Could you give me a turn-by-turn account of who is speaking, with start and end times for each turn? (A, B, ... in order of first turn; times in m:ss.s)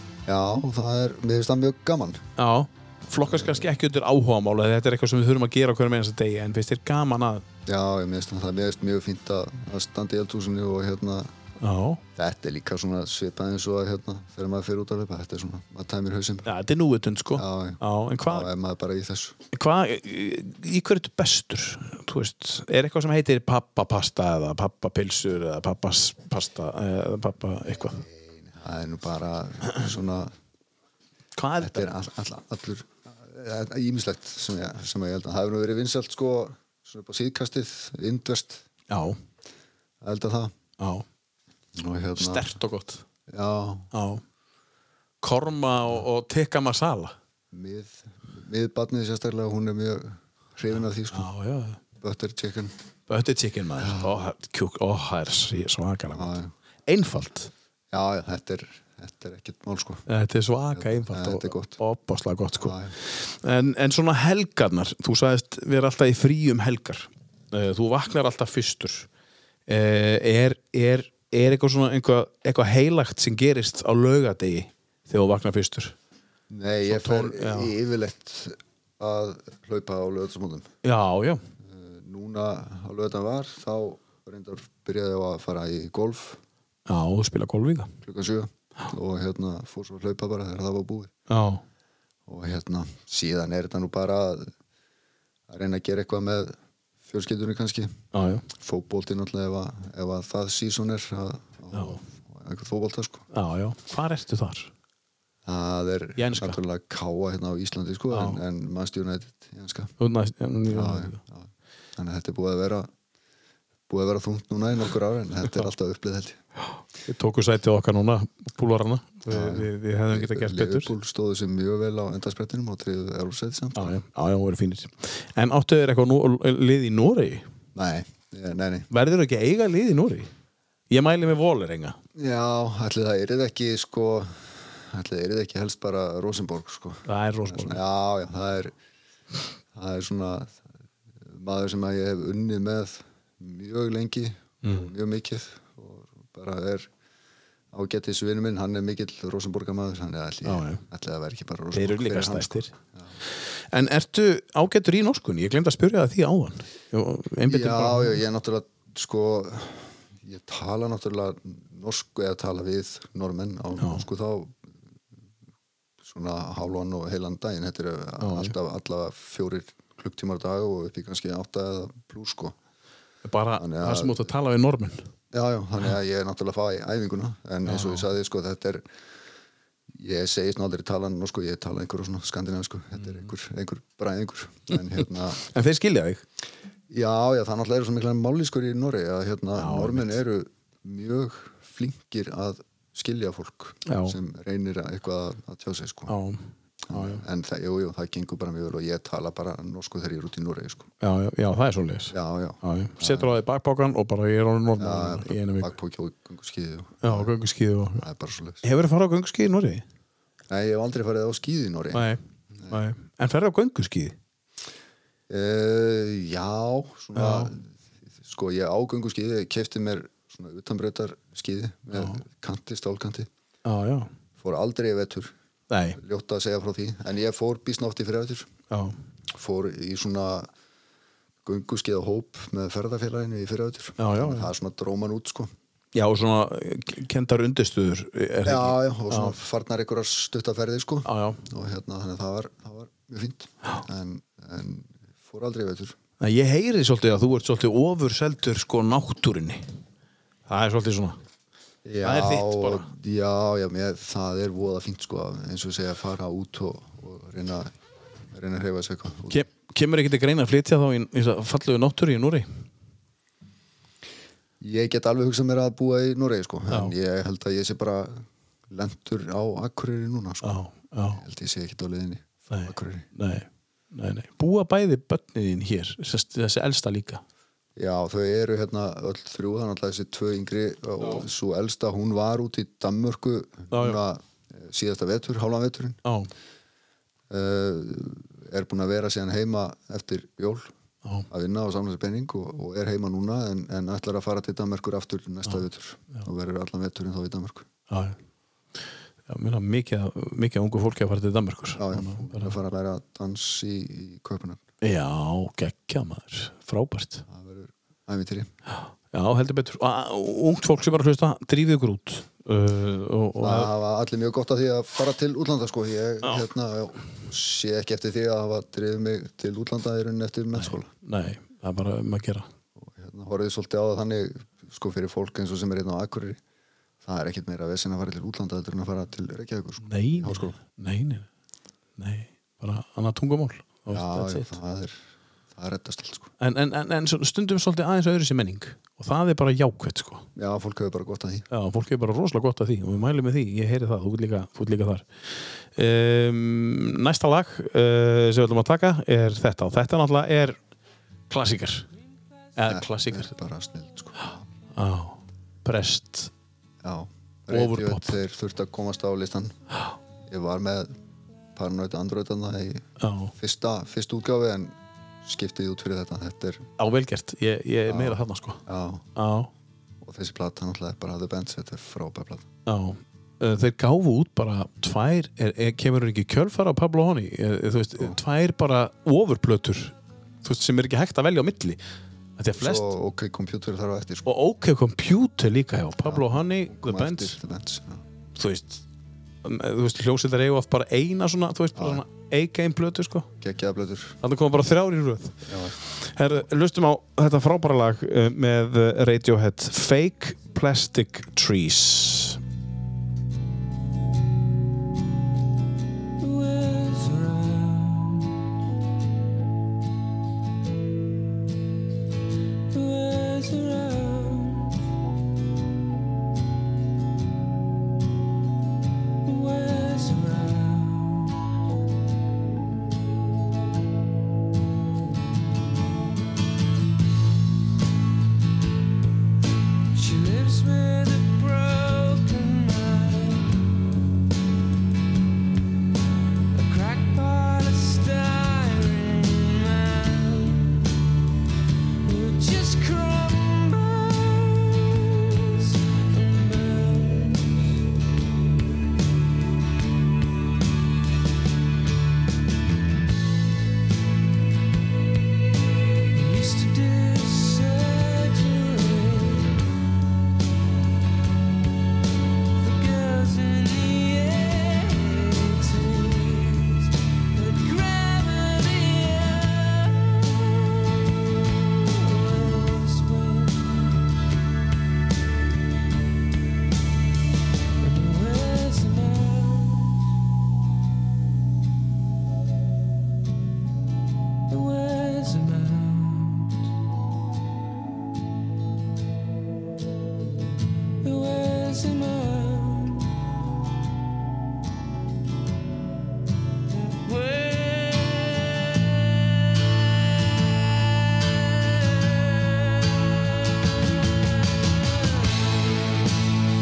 0:00.2-0:02.2 A
0:02.4-0:07.4 B
0:03.2-0:03.7 A
0:07.6-0:11.3 A
0:11.6-0:12.0 B
0:12.1-0:16.5 A
0:16.4-0:18.5 B
0:17.3-0:19.4 A
0:19.5-0:28.0 B
0:27.8-0:30.3 A
0:31.4-0:31.9 B
0:31.6-0:38.6 A
0:38.9-0:39.2 B
0:40.0-0:40.5 A
0:40.8-0:41.0 B
0:41.8-0:42.5 A
0:42.2-0:43.0 B
0:43.3-0:43.9 A
0:43.9-0:44.2 B
0:45.2-0:47.1 B
0:47.5-0:51.3 A
0:51.1-0:51.8 B
0:52.0-0:52.7 A
0:53.1-0:57.5 B
0:53.8-0:54.2 A
0:56.1-0:56.5 A
0:57.9-1:00.0 A
1:00.1-1:09.1 B
1:00.7-1:01.8 A
1:02.6-1:02.9 A
1:09.7-1:15.9 B
1:16.5-1:20.7 A
1:16.9-1:17.7 B
1:20.8-1:21.4 B
1:21.6-1:26.4 A
1:26.9-1:27.9 B
1:28.0-1:31.1 A
1:31.3-1:31.6 B
1:32.3-1:34.5 A
1:35.5-1:38.0 A
1:38.1-1:38.4 B
1:38.5-1:43.2 A
1:41.7-1:42.0 B
1:43.3-1:44.7 B
1:45.4-1:49.9 A
1:46.2-1:46.6 B
1:48.1-1:48.4 B
1:50.0-1:51.2 B
1:50.7-1:52.9 A
1:53.9-1:56.4 A
1:57.0-2:00.9 B
1:59.3-2:04.0 A
2:03.7-2:07.4 B
2:07.7-2:08.9 A
2:08.9-2:10.3 B
2:10.9-2:12.0 B
2:12.1-2:18.7 A
2:17.0-2:17.8 B
2:19.7-2:20.6 A
2:21.2-2:26.9 A
2:24.6-2:24.9 B
2:27.7-2:33.1 A
2:30.4-2:30.8 B
2:31.7-2:32.7 B
2:33.7-2:38.2 B
2:37.5-2:44.7 A
2:46.0-2:52.6 A
2:48.2-2:48.5 B
2:53.2-2:55.1 B
2:53.6-2:54.3 A
2:55.3-2:58.8 A
2:57.6-2:58.1 B
2:59.9-3:05.4 A
3:03.0-3:03.3 B
3:05.4-3:06.2 B
3:06.9-3:16.2 A
3:09.6-3:10.2 B
3:13.9-3:14.2 B
3:16.1-3:17.2 B
3:16.9-3:20.9 A
3:21.0-3:25.7 B
3:22.1-3:23.3 A
3:24.8-3:27.3 A
3:27.0-3:28.0 B
3:27.9-3:28.6 A
3:28.6-3:29.8 B
3:30.5-3:32.8 A
3:31.9-3:34.2 B
3:35.3-3:43.3 A
3:37.1-3:37.5 B
3:41.9-3:42.2 B
3:43.6-3:44.1 B
3:44.4-3:45.3 A
3:45.7-3:46.0 B
3:46.0-3:48.5 A
3:48.7-3:49.0 B
3:49.3-3:50.5 A
3:51.4-3:55.5 A
3:54.0-3:54.5 B
3:55.9-3:59.4 B
3:58.4-4:06.0 A
4:01.0-4:01.4 B
4:06.2-4:09.6 B
4:10.5-4:11.2 B
4:11.8-4:17.7 A
4:12.0-4:12.9 B
4:18.3-4:19.4 A
4:19.3-4:22.5 B
4:24.6-4:30.6 A
4:30.4-4:31.2 B
4:31.1-4:33.1 A
4:32.5-4:37.2 B
4:37.8-4:46.0 A
4:43.7-4:44.0 B
4:46.0-4:46.3 B
4:47.3-4:50.7 A
4:51.3-4:57.7 A
4:57.9-4:58.2 B
4:59.3-5:02.5 B
5:01.8-5:04.6 A
5:04.8-5:07.2 B
5:07.3-5:08.5 A
5:08.8-5:13.7 B
5:13.4-5:20.9 A
5:20.6-5:22.5 B
5:22.8-5:26.4 A
5:27.0-5:30.6 A
5:29.8-5:31.3 B
5:32.0-5:34.6 B
5:33.9-5:36.3 A
5:36.4-5:40.2 B
5:40.4-5:41.5 A
5:41.5-5:45.1 B
5:45.7-5:50.6 B
5:51.3-5:51.9 B
5:52.6-5:53.3 B
5:52.7-5:54.4 A
5:54.7-5:56.3 B
5:56.8-5:59.6 A
5:57.5-5:58.2 B
6:00.3-6:00.9 A
6:01.5-6:06.6 A
6:03.0-6:03.3 B
6:06.8-6:08.6 B
6:07.9-6:09.1 A
6:09.2-6:09.5 B
6:10.0-6:12.5 A
6:12.6-6:21.8 B
6:22.4-6:22.9 B
6:22.6-6:24.3 A
6:24.2-6:27.4 B
6:26.0-6:28.0 A
6:28.4-6:28.8 B
6:29.4-6:33.3 B
6:31.7-6:32.0 A
6:33.4-6:34.2 A
6:34.2-6:42.4 B
6:35.4-6:35.8 A
6:46.2-6:48.3 C
6:52.7-6:54.8 C
6:59.2-7:01.4 C
7:09.9-7:13.7 C
7:16.5-7:20.9 C
7:22.0-7:27.8 C
7:36.1-7:39.6 C
7:42.6-7:53.9 C
7:57.8-8:00.1 C
8:04.5-8:06.6 C
8:11.0-8:13.2 C
8:16.8-8:19.4 C
8:20.9-8:23.1 C
8:25.0-8:26.0 C